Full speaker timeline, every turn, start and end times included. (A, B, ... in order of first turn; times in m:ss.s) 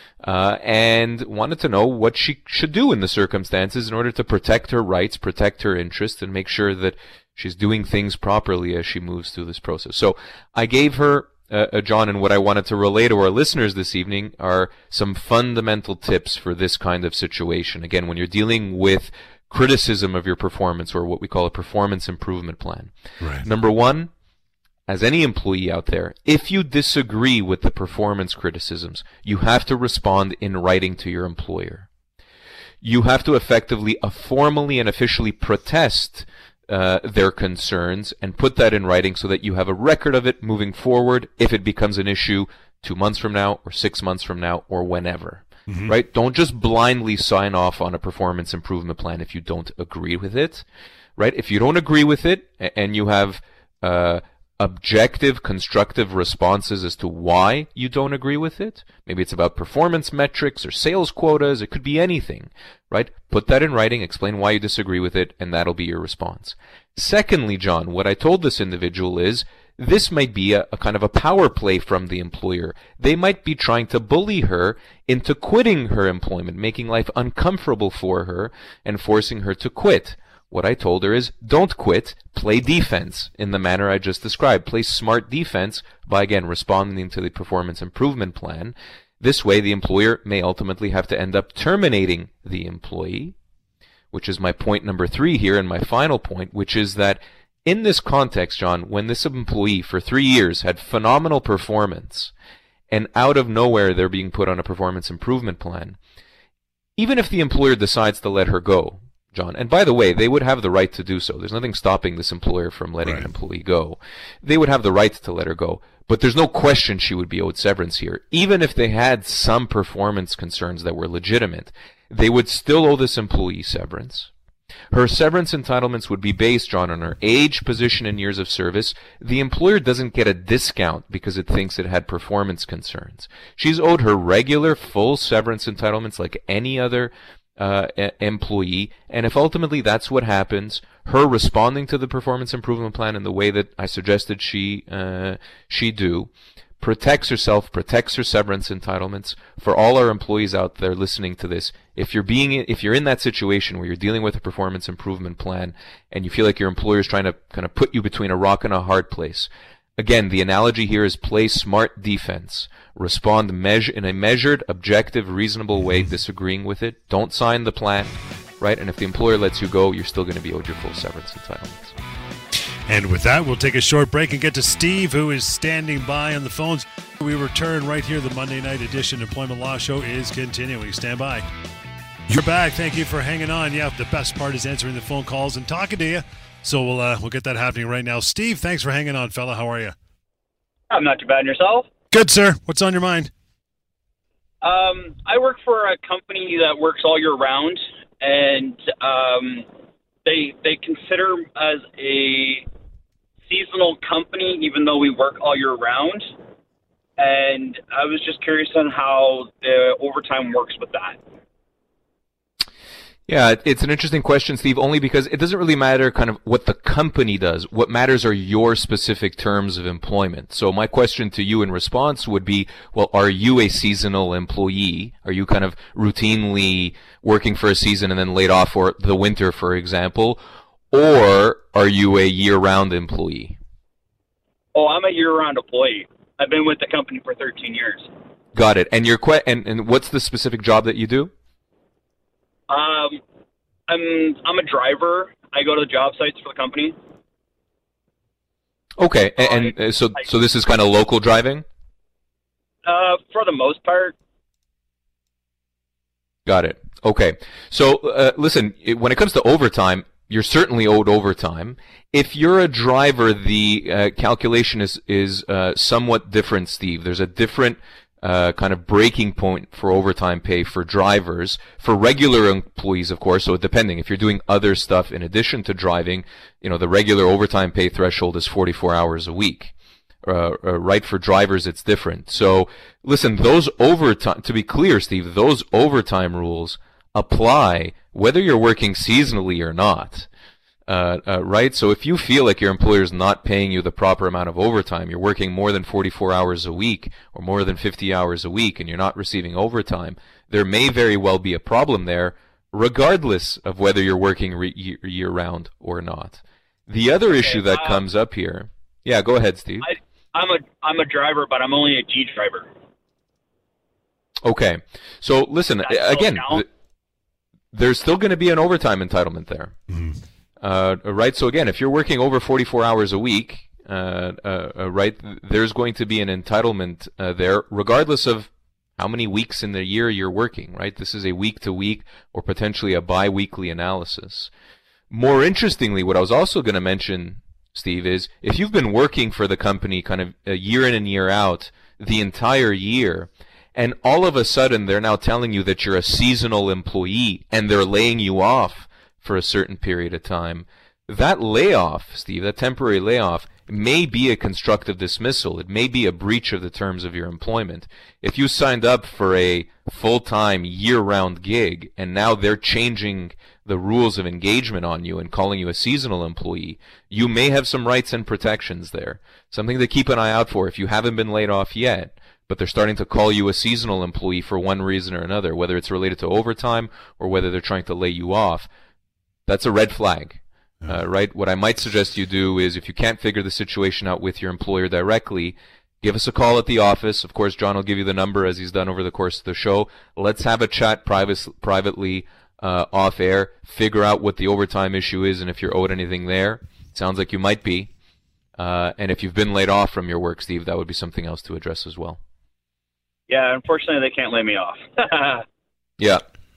0:00.2-0:24.1 A
0:23.2-0:23.5 B
0:24.9-0:31.9 A
0:32.8-0:50.6 A
0:45.7-0:46.0 B
0:51.2-1:33.4 A
1:34.1-1:42.3 A
1:42.9-1:46.0 A
1:47.0-2:04.3 A
2:04.9-2:52.0 A
2:52.9-3:01.4 B
3:02.3-3:10.0 B
3:10.9-3:11.9 C
3:12.1-3:13.3 B
3:14.6-3:19.7 C
3:20.2-3:22.7 C
3:23.5-3:26.3 C
3:27.2-3:31.2 C
3:33.3-3:50.4 A
3:50.9-3:53.6 A
3:54.8-3:58.1 C
3:58.5-4:01.3 A
4:02.7-4:03.2 C
4:03.9-4:07.0 C
4:09.0-4:11.6 A
4:09.4-4:09.7 C
4:12.8-4:14.2 C
4:16.5-4:50.3 A
4:50.9-5:09.9 A
5:07.4-5:08.0 C
5:09.8-5:12.7 C
5:14.4-5:16.7 A
5:15.8-5:16.6 C
5:17.7-5:19.8 A
5:19.9-5:20.2 B
5:20.6-5:34.5 A
5:35.1-6:18.7 A
6:19.5-6:37.9 A
6:38.6-6:42.2 A
6:43.3-6:45.4 C